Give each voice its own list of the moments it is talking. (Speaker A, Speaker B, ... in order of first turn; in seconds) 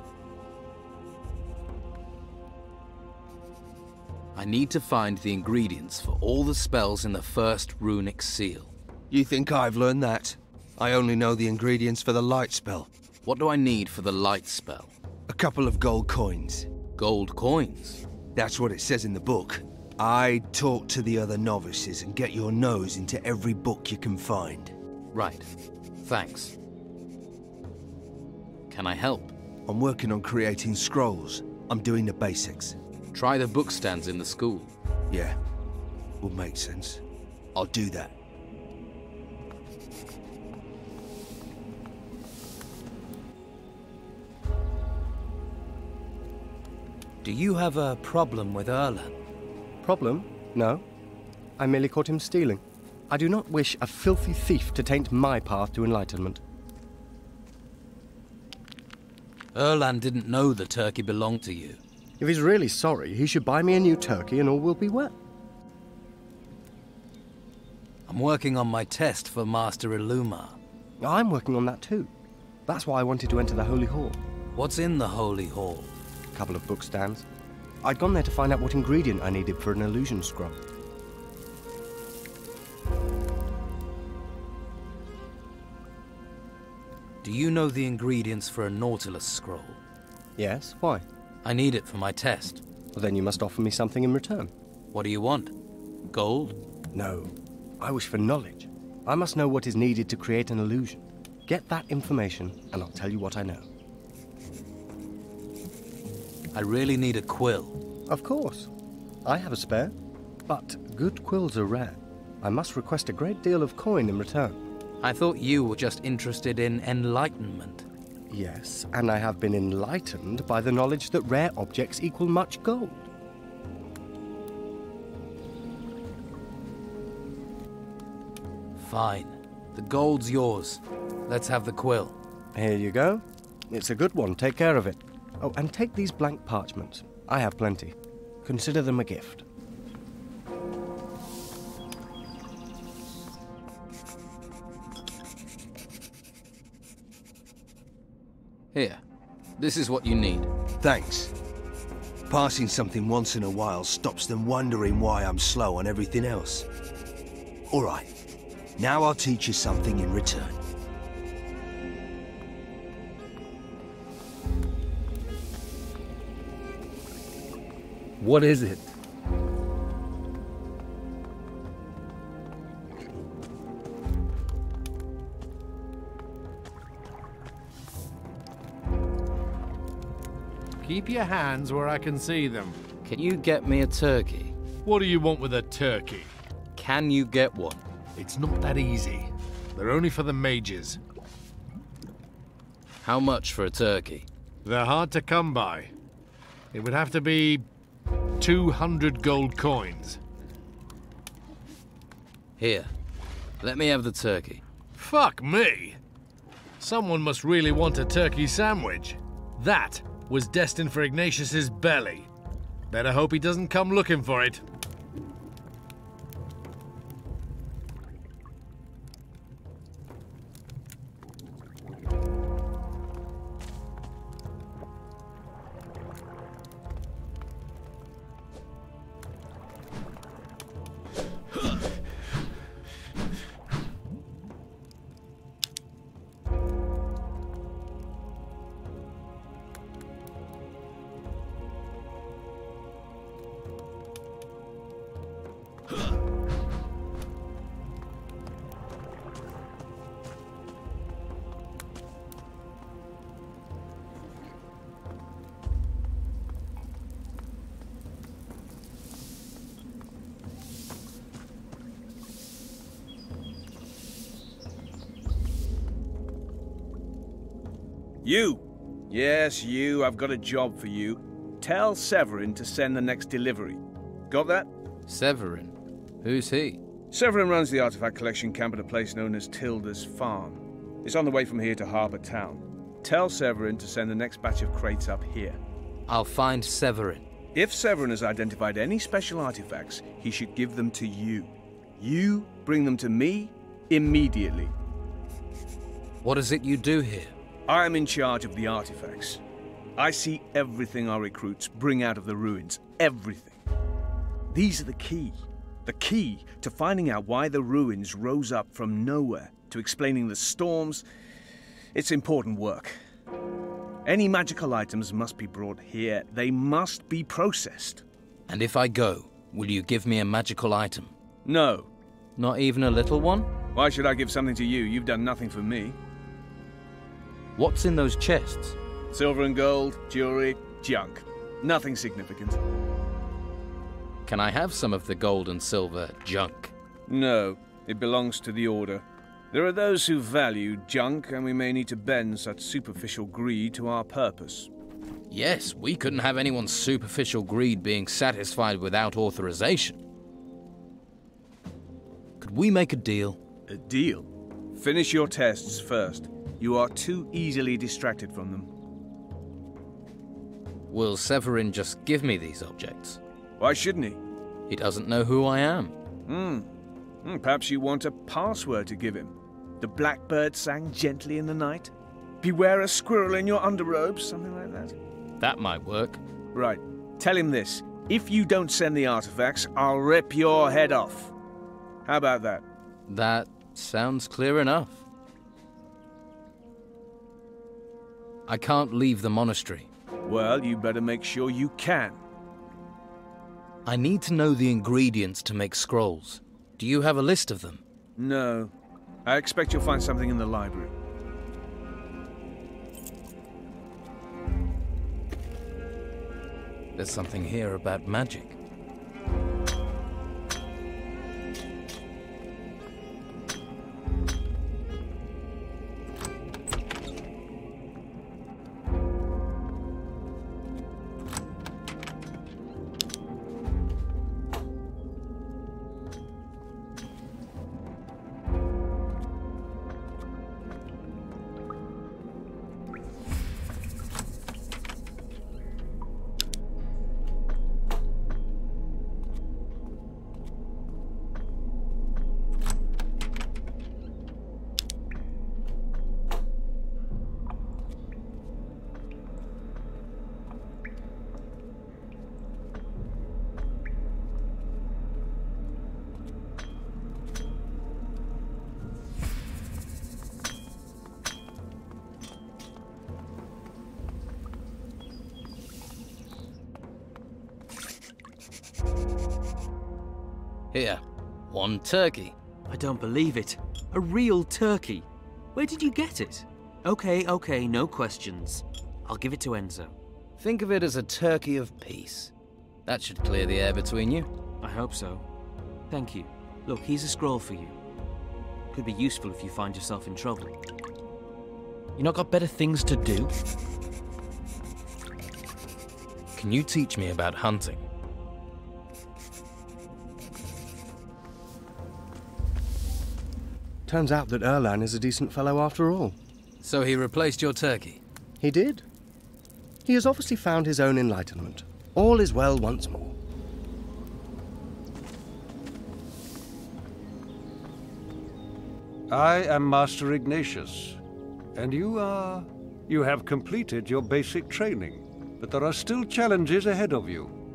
Speaker A: 4.3-8.7, 13.2-14.9, 16.9-18.0, 25.1-25.5, 26.0-26.5, 28.7-29.3, 33.1-34.7, 47.2-49.1, 59.5-61.8, 68.1-70.6, 74.5-75.9, 87.2-89.8, 91.4-92.6, 94.9-95.5, 96.1-96.6, 106.5-107.8, 115.0-117.8, 128.8-132.2, 148.7-149.0, 149.6-150.5, 183.0-184.5, 186.7-187.8, 193.0-194.3, 202.6-202.9, 203.6-204.6, 275.1-276.8, 286.1-287.2, 296.2-297.3, 318.5-321.1, 322.4-323.5, 327.6-328.8, 334.2-336.7, 345.3-350.0, 352.4-353.4, 360.9-363.2, 364.7-365.9, 375.4-376.2, 383.1-385.0, 388.5-389.9, 393.8-397.8, 406.9-408.6, 470.7-472.4, 480.4-482.3, 482.9-484.3, 496.3-497.9, 506.6-508.0
Speaker B: 9.1-12.9, 15.3-16.7, 18.3-24.7, 29.7-32.8, 35.1-35.4, 36.2-37.0, 37.5-38.1, 150.8-151.3, 152.3-156.7, 157.7-158.1, 158.8-160.6, 168.2-168.8
Speaker C: 49.8-50.8, 51.6-56.4, 62.2-65.1, 71.0-72.1, 72.7-74.2, 76.3-77.2, 77.8-80.6, 90.4-91.0, 92.9-94.5, 96.9-103.7, 108.1-108.7, 109.2-109.9, 110.5-114.6, 118.3-123.1, 132.5-139.4, 503.9-506.1, 508.4-508.8, 509.8-513.1
Speaker D: 180.8-182.8, 184.8-186.3, 188.2-191.0, 194.6-195.9, 196.7-197.6, 198.4-200.2, 205.0-206.0, 206.8-212.3, 212.9-214.6
Speaker E: 268.2-274.7, 277.1-285.6, 287.5-294.7, 297.7-299.4, 300.0-303.6, 304.5-311.0, 311.9-312.9, 314.0-318.0, 321.4-321.9, 323.7-326.0, 329.1-332.6, 337.1-344.7, 353.7-358.7, 363.6-364.2, 366.3-366.7, 367.2-374.9, 376.5-381.3, 382.0-382.6, 390.2-392.2, 398.2-398.7, 399.2-400.9
Speaker F: 472.7-479.9, 484.6-485.2, 485.9-487.8, 488.7-490.6, 492.0-493.3
Speaker G: 519.1-521.0, 521.5-527.3